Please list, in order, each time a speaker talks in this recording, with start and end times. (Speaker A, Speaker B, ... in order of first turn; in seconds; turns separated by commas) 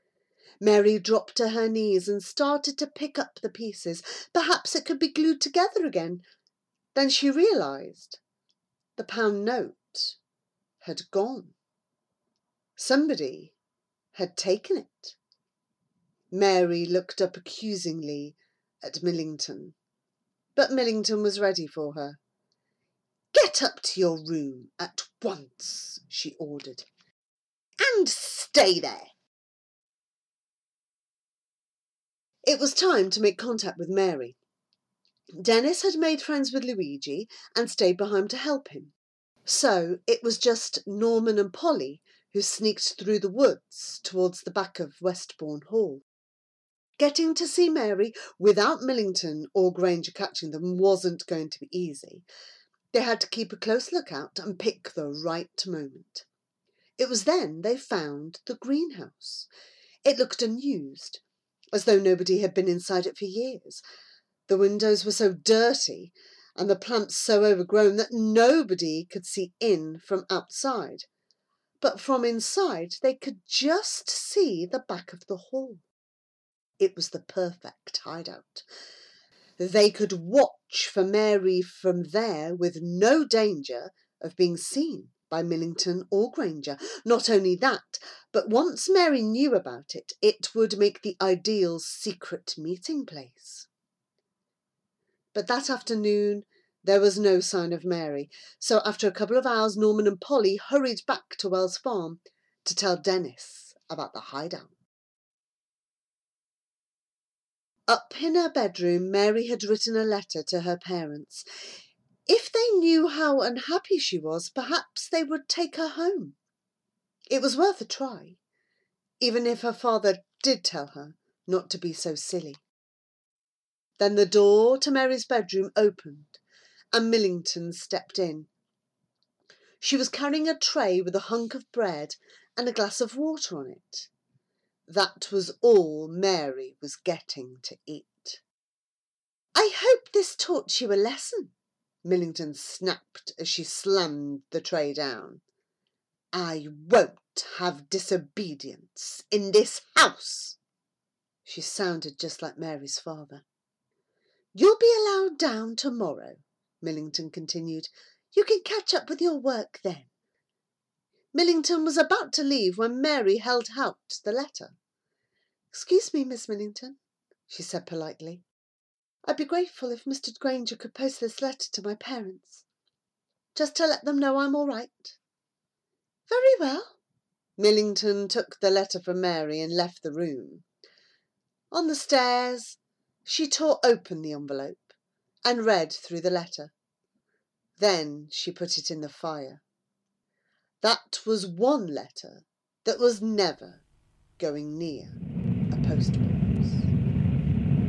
Speaker A: 0.6-6.2, Speaker A: 6.9-8.2, Speaker A: 9.0-10.2, Speaker A: 10.8-11.6, Speaker A: 12.8-13.6, Speaker A: 14.1-15.2, Speaker A: 16.3-19.8, Speaker A: 20.6-22.2, Speaker A: 23.3-26.9, Speaker A: 27.8-29.1, Speaker A: 32.4-34.4, Speaker A: 35.4-38.9, Speaker A: 39.5-46.0, Speaker A: 47.0-52.3, Speaker A: 52.9-56.3, Speaker A: 57.0-59.5, Speaker A: 60.0-61.2, Speaker A: 61.7-63.8, Speaker A: 64.5-71.1, Speaker A: 71.8-75.8, Speaker A: 76.8-78.7, Speaker A: 79.6-93.7, Speaker A: 95.3-104.8, Speaker A: 107.9-111.5, Speaker A: 112.3-116.4, Speaker A: 117.3-118.4, Speaker A: 119.2-122.6, Speaker A: 124.0-126.4, Speaker A: 126.9-128.5, Speaker A: 129.8-134.1, Speaker A: 134.9-138.4, Speaker A: 139.6-145.4, Speaker A: 146.3-150.6, Speaker A: 151.4-153.4, Speaker A: 154.5-160.1, Speaker A: 161.3-164.8, Speaker A: 165.7-167.0, Speaker A: 167.5-168.4, Speaker A: 169.2-172.7, Speaker A: 173.6-175.2, Speaker A: 176.3-177.0, Speaker A: 177.6-180.7, Speaker A: 181.7-184.9, Speaker A: 185.4-186.7, Speaker A: 187.8-189.6, Speaker A: 190.8-193.8, Speaker A: 194.4-195.2, Speaker A: 195.7-196.9